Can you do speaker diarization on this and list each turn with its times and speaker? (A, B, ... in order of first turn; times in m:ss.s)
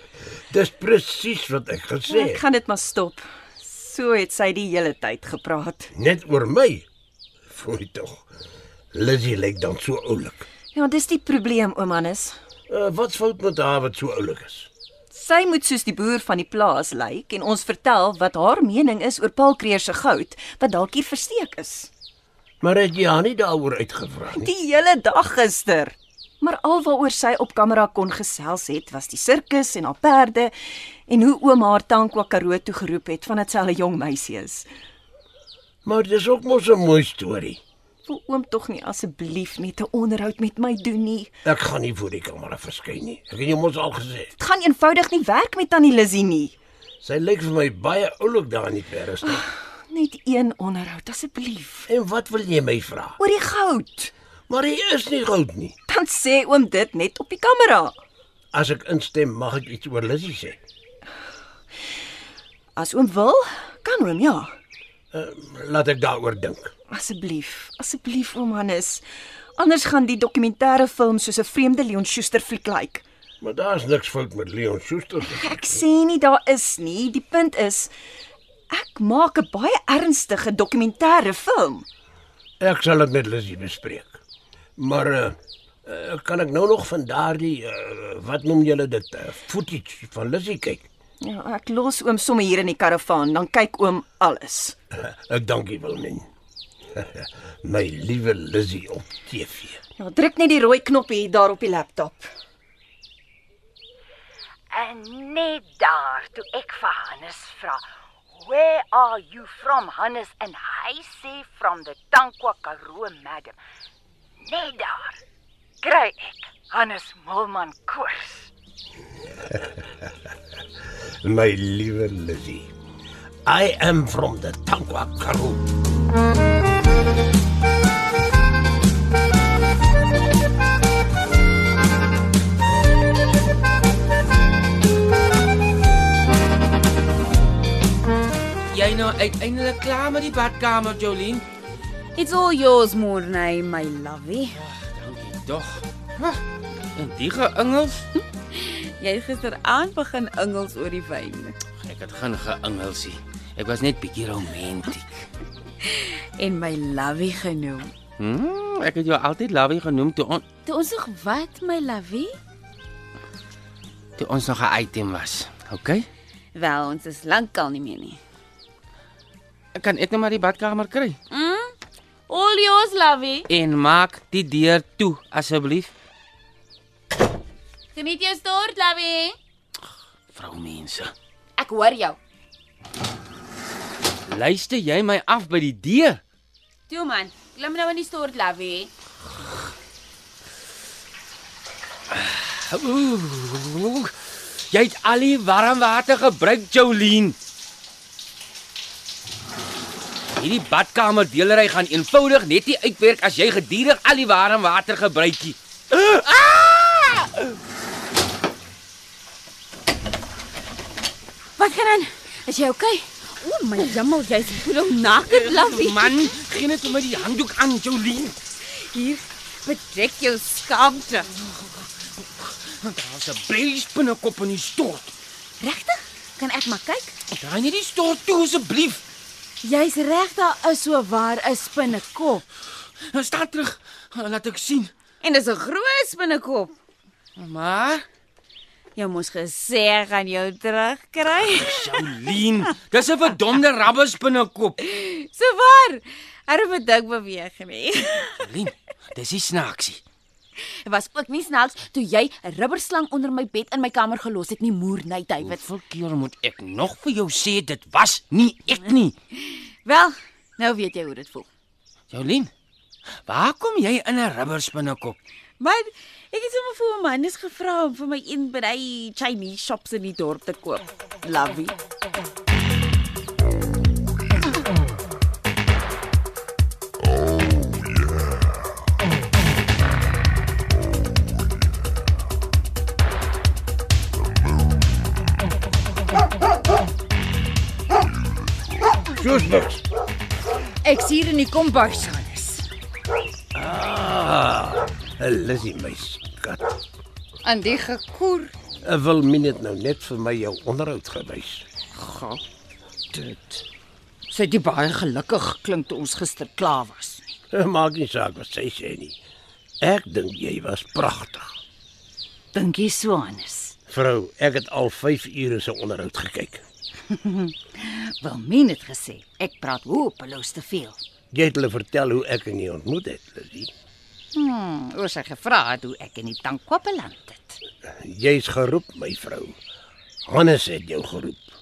0:00.5-0:02.4 A
0:02.1-0:05.9 B
0:05.9-0:06.9 A
0:07.5-0:08.2 A
0:08.9-0:10.5 A
0:10.7-0:12.4 B
0:12.7-0:14.7 A
0:15.1-0:21.9 B
0:22.6-0:24.5 A
0:24.4-0:30.5 B
0:31.1-0:34.7 B
0:35.8-0:37.6 A
0:38.1-0:41.3 B
0:41.4-0:44.3 A
0:44.4-0:46.6 B
0:47.0-0:49.4 A
0:49.2-0:51.9 B
0:51.9-0:53.2 A
0:53.2-0:54.1 B
0:54.5-0:55.8 A
0:55.9-0:58.0 B
0:58.5-1:00.6 A
1:02.8-1:04.5 B
1:05.1-1:06.7 A
1:06.9-1:09.0 B
1:09.6-1:13.0 B
1:13.4-1:15.5 A
1:15.2-1:17.9 B
1:18.7-1:21.8 B
1:22.6-1:24.2 A
1:24.8-1:30.8 A
1:31.2-1:34.8 B
1:35.1-1:36.3 A
1:37.0-1:39.8 A
1:40.0-1:42.3 B
1:44.7-1:53.6 C
1:54.4-1:55.2 C
1:55.8-1:58.5 C
2:01.2-2:02.7 A
2:03.5-2:05.7 A
2:18.7-2:21.5 D
2:22.2-2:24.6 E
2:24.5-2:26.4 D
2:27.0-2:28.1 D
2:28.5-2:31.6 E
2:31.8-2:35.3 D
2:35.8-2:37.9 E
2:38.2-2:40.4 D
2:40.6-2:42.3 E
2:44.2-2:46.1 D
2:46.6-2:48.2 E
2:49.8-2:51.2 D
2:51.3-2:51.7 E
2:52.3-2:53.5 E
2:53.5-2:55.9 D
2:57.9-2:59.4 E
3:00.3-3:01.1 D
3:01.6-3:02.2 E
3:04.3-3:06.2 D
3:06.9-3:08.9 E
3:12.1-3:14.1 D
3:14.7-3:17.4 D
3:20.4-3:27.3 D
3:31.6-3:36.3 E
3:35.3-3:38.4 D
3:38.6-3:41.3 E
3:42.4-3:45.1 D
3:45.6-3:47.2 E
3:47.3-3:49.0 D
3:49.6-3:52.4 E
3:53.1-3:54.9 D
3:55.2-3:56.7 E
3:57.4-3:58.0 D
3:59.0-4:02.1 E
4:01.4-4:04.8 D
4:04.8-4:08.4 E
4:08.4-4:10.0 D
4:10.8-4:15.6 E
4:15.4-4:19.2 D
4:19.3-4:21.5 E
4:22.1-4:22.5 D
4:23.3-4:25.2 D
4:25.6-4:31.8 E
4:49.2-4:49.8 A
4:50.8-4:52.7 C
4:53.6-4:56.6 A
4:57.4-4:58.5 C
4:58.8-5:01.7 A
5:02.0-5:02.4 C
5:03.1-5:03.6 C
5:04.3-5:07.4 C
5:07.5-5:09.2 A
5:09.8-5:11.5 A
5:12.5-5:13.8 C
5:13.9-5:16.6 A
5:17.1-5:21.0 C
5:21.3-5:23.7 A
5:24.3-5:27.6 C
5:27.9-5:29.6 A
5:30.3-5:31.5 A